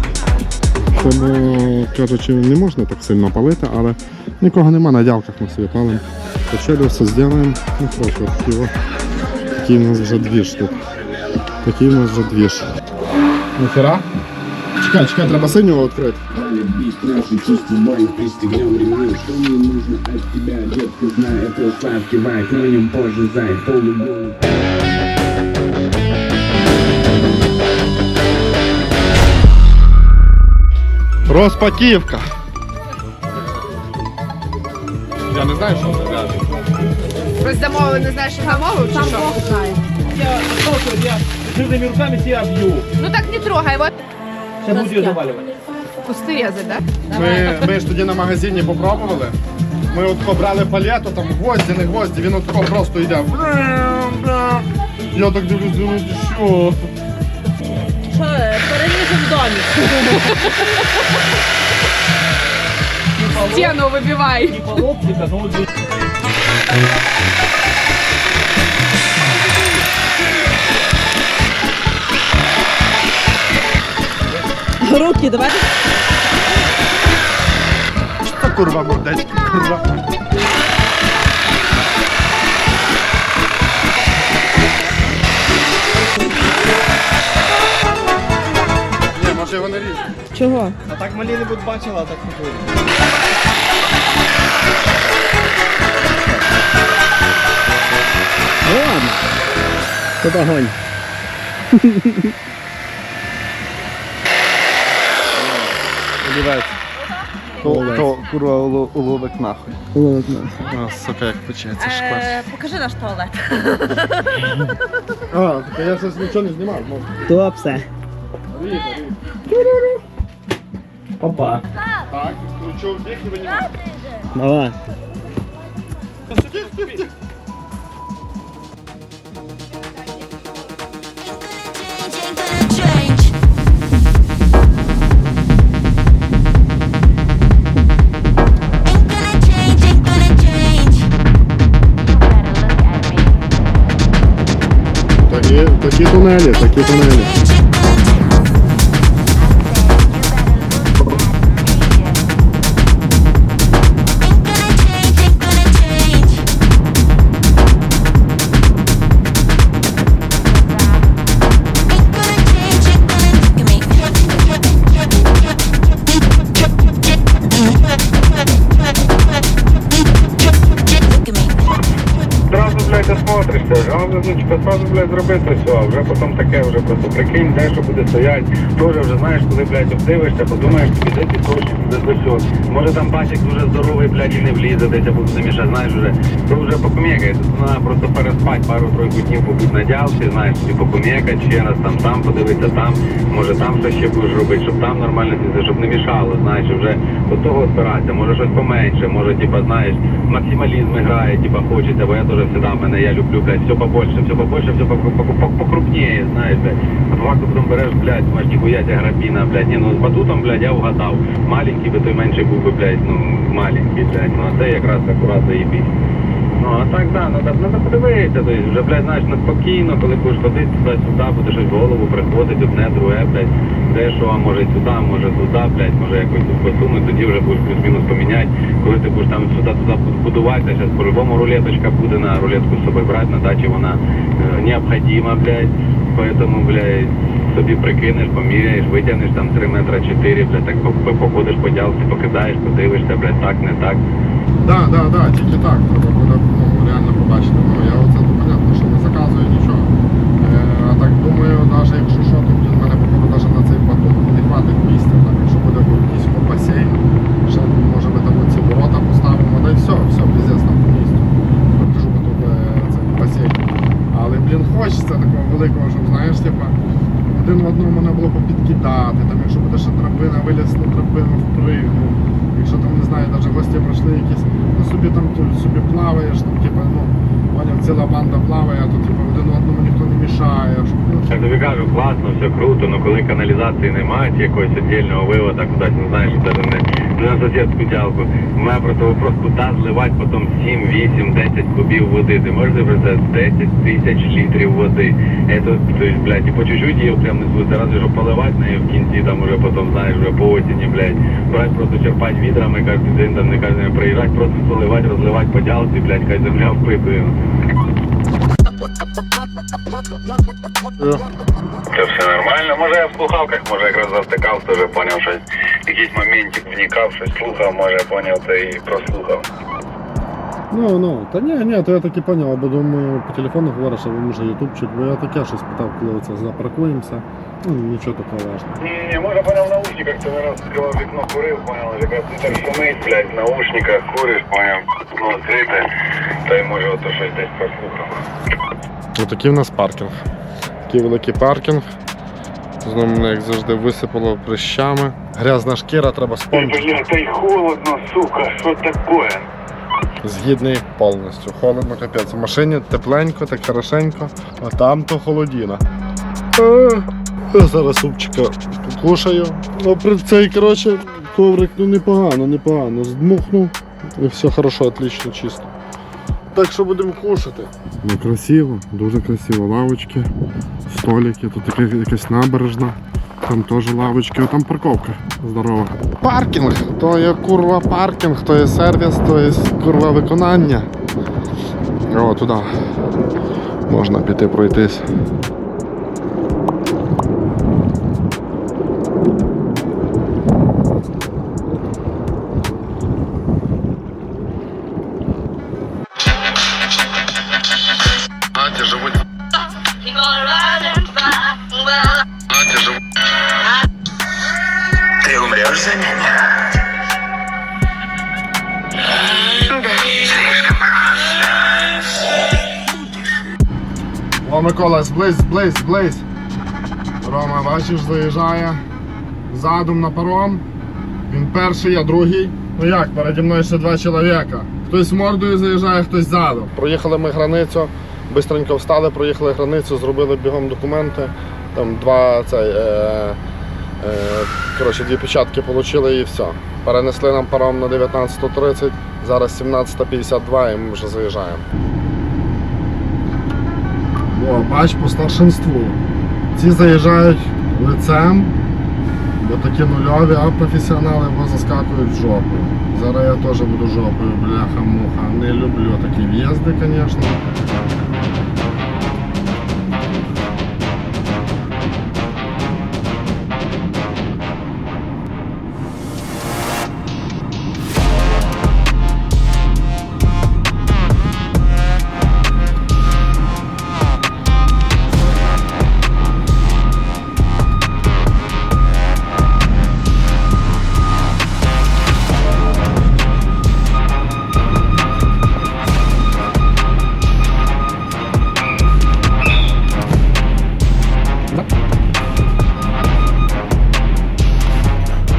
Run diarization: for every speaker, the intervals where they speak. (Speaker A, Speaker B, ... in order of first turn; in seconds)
Speaker A: 0.9-8.7, 9.6-10.8, 11.6-12.7, 13.6-14.1, 14.8-16.2, 31.3-32.2, 35.3-36.4, 47.1-49.4, 49.9-56.9, 78.2-79.8, 89.1-90.0, 106.2-106.7, 107.6-109.7, 110.7-112.4, 115.3-117.2, 118.5-119.2, 122.1-123.7, 126.3-127.1, 145.2-147.4, 244.6-263.6, 264.1-266.8, 267.3-281.3, 311.0-311.2, 320.7-328.7, 339.1-340.2, 340.9-341.9, 342.8-347.0, 350.2-355.8, 356.6-365.7, 366.5-370.3, 370.9-380.9, 382.1-382.9, 383.9-385.1, 398.6-399.1, 402.5-402.8, 414.4-416.2, 417.2-418.8, 419.5-420.6, 421.3-433.4, 434.0-441.6, 444.3-446.0, 446.5-448.5, 449.4-457.4
Speaker B: 16.3-24.4
Speaker C: 37.4-39.8, 43.0-43.9, 46.0-46.8, 63.4-64.6
Speaker D: 38.5-39.7, 44.7-45.2, 47.1-47.4, 58.1-60.5, 74.8-75.7, 90.3-90.7, 111.8-114.6
Speaker E: 38.9-39.4, 40.0-42.9, 44.6-45.5, 63.1-63.8, 64.5-65.7, 90.8-92.8
Speaker F: 90.3-90.7, 98.6-99.3, 100.2-100.8, 101.8-102.3, 107.6-108.2, 109.9-110.6, 117.2-117.9, 119.5-119.8, 121.2-121.6, 124.3-124.8
Speaker G: 172.5-215.9, 216.6-244.0, 281.3-307.4, 311.9-319.4, 328.8-335.9, 336.4-338.2, 346.5-349.5, 405.4-406.1